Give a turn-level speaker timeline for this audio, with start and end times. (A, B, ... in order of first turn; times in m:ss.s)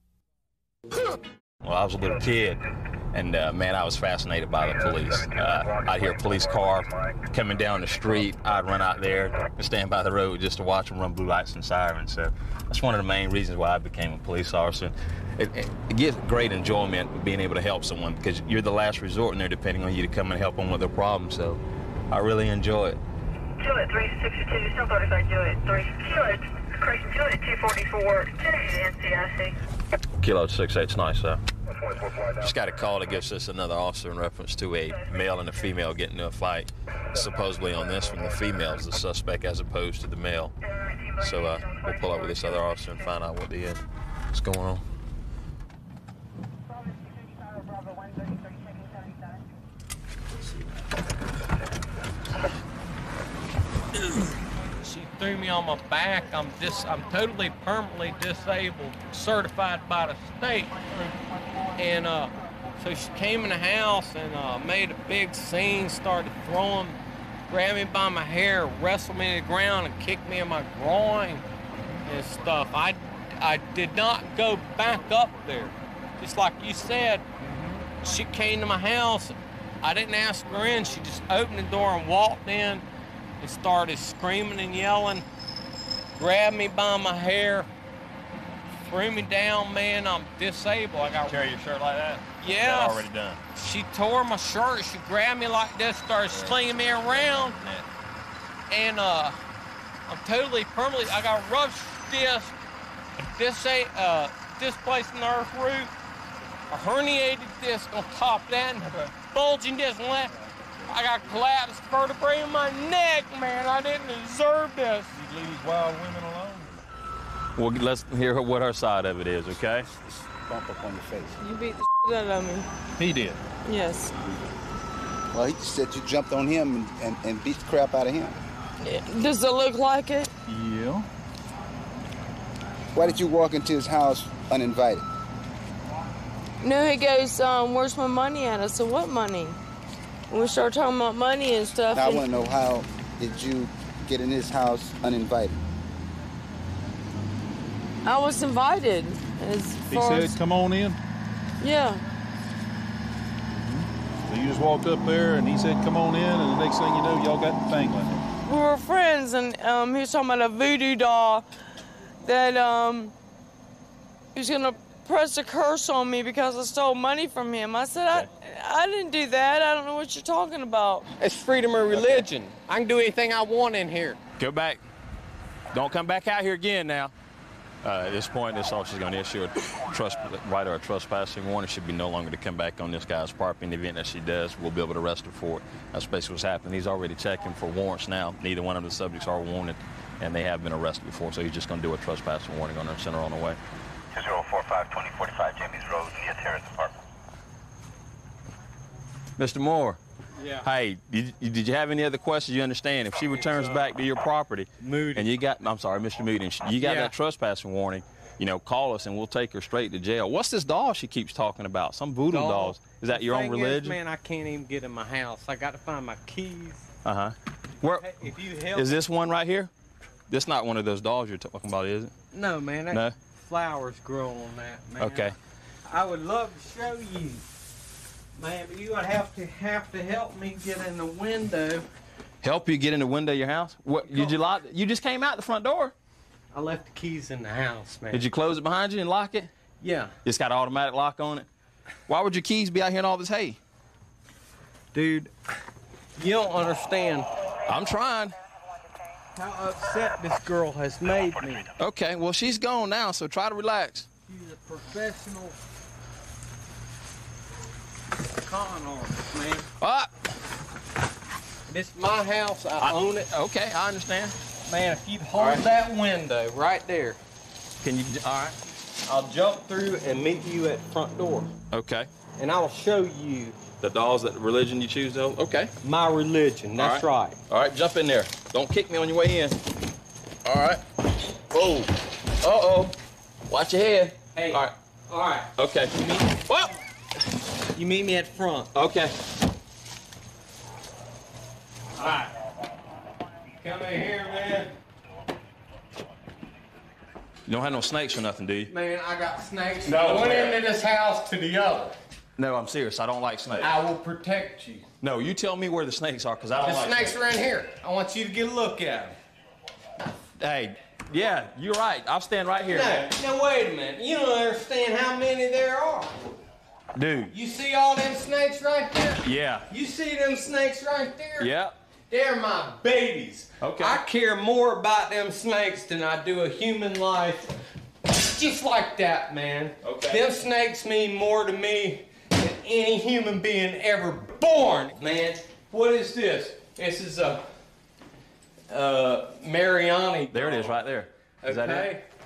0:01.6-0:02.6 A
0:03.1-0:23.0 A
0:23.6-0:29.5 B
0:30.2-0:31.4 A
0:32.4-0:40.5 A
0:41.2-0:44.8 A
0:54.8-1:00.9 C
1:01.8-1:11.4 C
1:12.0-1:17.3 C
1:18.0-1:22.8 C
1:23.4-1:25.2 C
1:26.2-1:27.7 C
1:28.8-1:31.4 C
1:31.3-1:33.4 A
1:32.4-1:37.6 C
1:36.3-1:37.9 A
1:38.7-1:39.4 C
1:40.1-1:42.6 C
1:43.3-1:45.9 C
1:46.7-1:50.3 C
1:50.9-1:55.1 C
1:55.1-1:56.8 D
1:57.6-1:59.9 A
2:00.4-2:01.4 E
2:01.4-2:02.7 F
2:03.0-2:03.4 D
2:03.6-2:04.1 F
2:05.3-2:08.4 E
2:08.8-2:10.3 F
2:10.5-2:11.1 D
2:13.0-2:15.1 E
2:16.6-2:19.6 F
2:20.3-2:22.2 F
2:21.9-2:25.6 E
2:28.0-2:30.4 F
2:29.9-2:31.0 D
2:31.6-2:32.0 F
2:33.5-2:38.3 D
2:38.4-2:41.4 F
2:42.2-2:43.1 F
2:44.4-2:51.1 F
2:51.2-2:54.2 C
2:54.4-2:54.8 A
2:55.7-2:57.1 A
2:57.8-3:13.6 A
3:14.2-3:16.9 G
3:19.4-3:20.0 A
3:20.6-3:34.0 A
3:23.4-3:23.8 C
3:24.8-3:25.3 C
3:26.8-3:27.1 C
3:32.3-3:36.9 C
3:37.0-3:38.1 A
3:37.8-3:39.0 C
3:38.7-3:39.7 A
3:40.3-3:42.1 A
3:42.3-3:45.3 C
3:42.9-3:43.2 A
3:45.0-3:45.4 A
3:45.9-3:47.4 C
3:48.4-3:51.9 C
3:52.4-3:55.9 A
3:54.0-3:54.4 C
3:56.5-3:58.3 C
3:58.1-3:59.5 A
3:59.8-4:00.1 C
4:00.2-4:01.5 A
4:02.1-4:03.6 A
4:05.0-4:05.3 A
4:06.2-4:07.3 C
4:07.7-4:08.4 A
4:09.4-4:11.6 C
4:11.8-4:14.1 A
4:14.3-4:15.5 C
4:18.4-4:19.6 C
4:19.8-4:20.1 A
4:21.7-4:23.3 C
4:22.8-4:24.4 A
4:24.7-4:27.2 C
4:25.4-4:25.6 A
4:27.8-4:28.6 A
4:29.1-4:31.5 C
4:31.7-4:32.1 A
4:32.4-4:33.6 C
4:33.8-4:35.7 A
4:35.8-4:37.4 C
4:36.8-4:39.6 A
4:40.4-4:40.8 A
4:41.5-4:41.9 A
4:42.4-4:42.9 A
4:43.5-4:44.7 A
4:44.4-4:46.3 C
4:45.6-4:46.7 A
4:47.8-4:48.7 C
4:48.7-4:49.1 A
4:52.0-4:52.3 C
4:53.6-4:54.7 C
4:57.5-4:58.7 A
4:58.7-5:02.0 C
4:59.8-5:00.6 A
5:02.4-5:03.8 A
5:03.6-5:04.9 C
5:05.0-5:07.2 A
5:06.6-5:09.2 C
5:10.4-5:13.0 A
5:12.7-5:16.4 C
5:17.0-5:17.3 A
5:17.3-5:21.5 C
5:19.2-5:19.7 A
5:21.4-5:21.8 A
5:22.1-5:27.5 C
5:23.6-5:24.0 A
5:28.1-5:37.4 C
5:29.8-5:30.3 A
5:38.7-5:40.8 C
5:40.3-5:41.9 A
5:41.4-5:42.0 C